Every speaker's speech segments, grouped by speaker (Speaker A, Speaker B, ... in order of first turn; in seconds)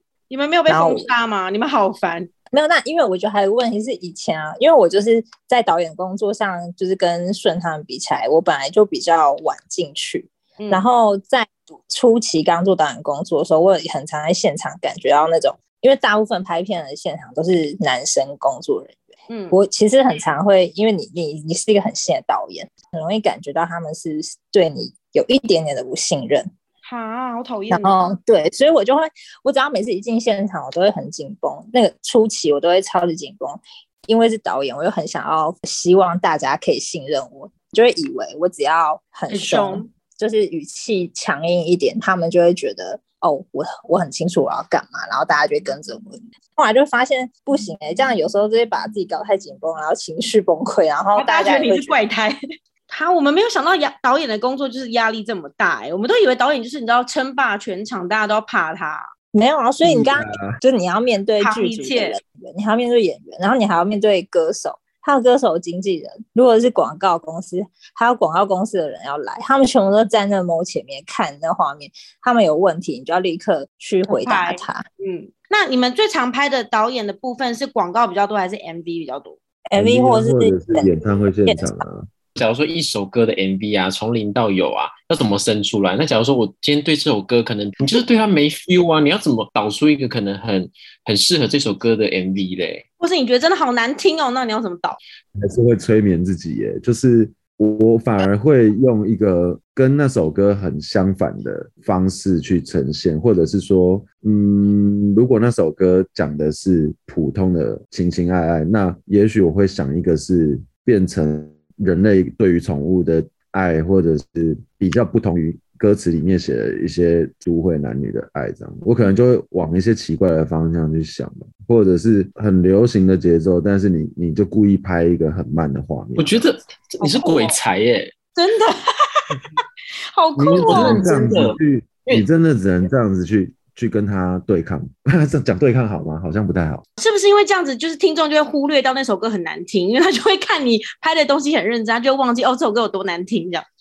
Speaker A: 0.3-2.3, 10.6-10.8, 19.3-19.6, 26.8-28.0, 39.3-39.9, 51.2-52.4, 52.9-59.0, 61.4-62.2, 74.1-79.4, 93.0-95.0, 127.0-127.6, 128.4-129.3, 130.1-131.1, 137.0-143.7
Speaker B: 0.7-1.1, 2.5-19.0, 19.5-26.5, 27.7-52.0, 59.3-74.8, 79.7-80.9, 81.5-81.8
Speaker C: 59.8-60.6, 79.8-82.1, 95.3-126.5, 130.4-136.8
Speaker D: 82.4-92.8, 126.2-128.1, 130.6-132.3